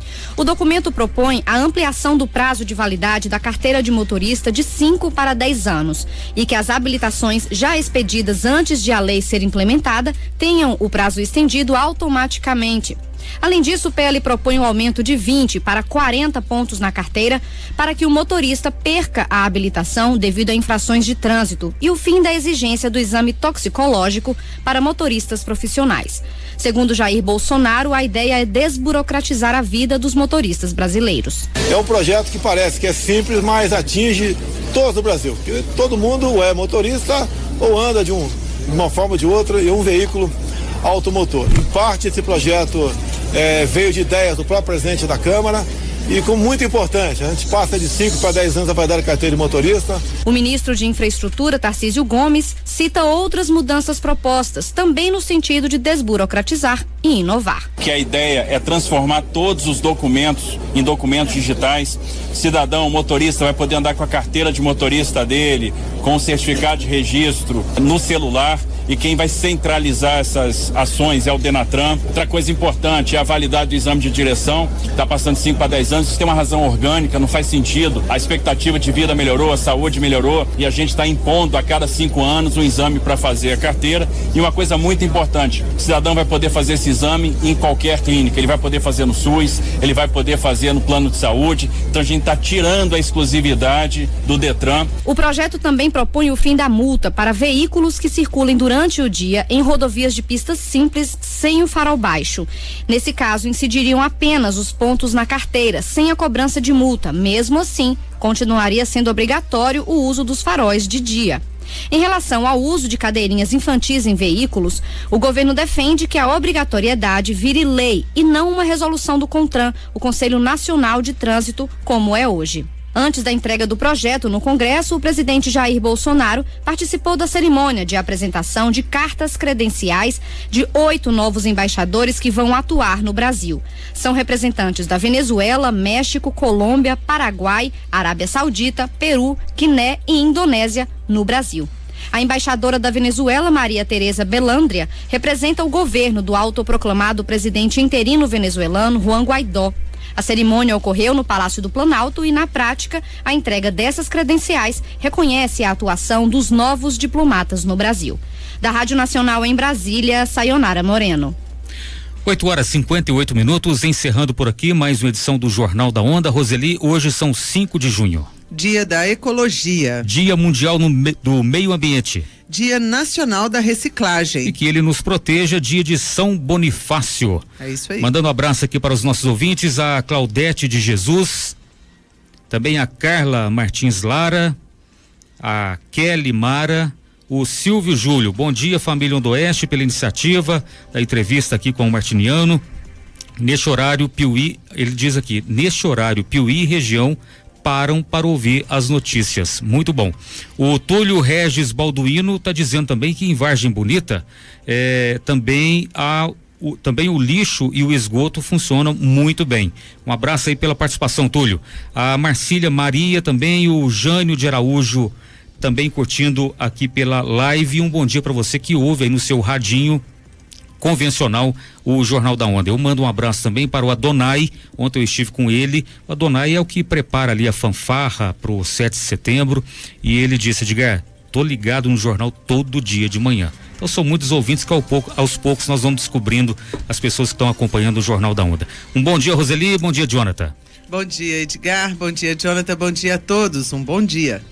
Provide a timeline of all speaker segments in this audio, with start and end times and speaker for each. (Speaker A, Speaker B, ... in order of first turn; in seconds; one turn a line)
Speaker A: 0.4-31.5
Speaker B: 31.7-50.0
Speaker A: 50.2-57.6
Speaker C: 57.8-94.9
Speaker A: 95.0-161.3
Speaker D: 162.2-168.3
Speaker E: 168.5-170.0
Speaker D: 170.0-172.3
Speaker E: 172.5-174.5
Speaker D: 174.4-177.4
Speaker E: 177.6-178.1
Speaker D: 178.0-181.5
Speaker D: 182.5-184.6
Speaker D: 185.4-192.6
Speaker D: 193.4-220.0
Speaker D: 220.8-240.5
Speaker E: 240.9-244.4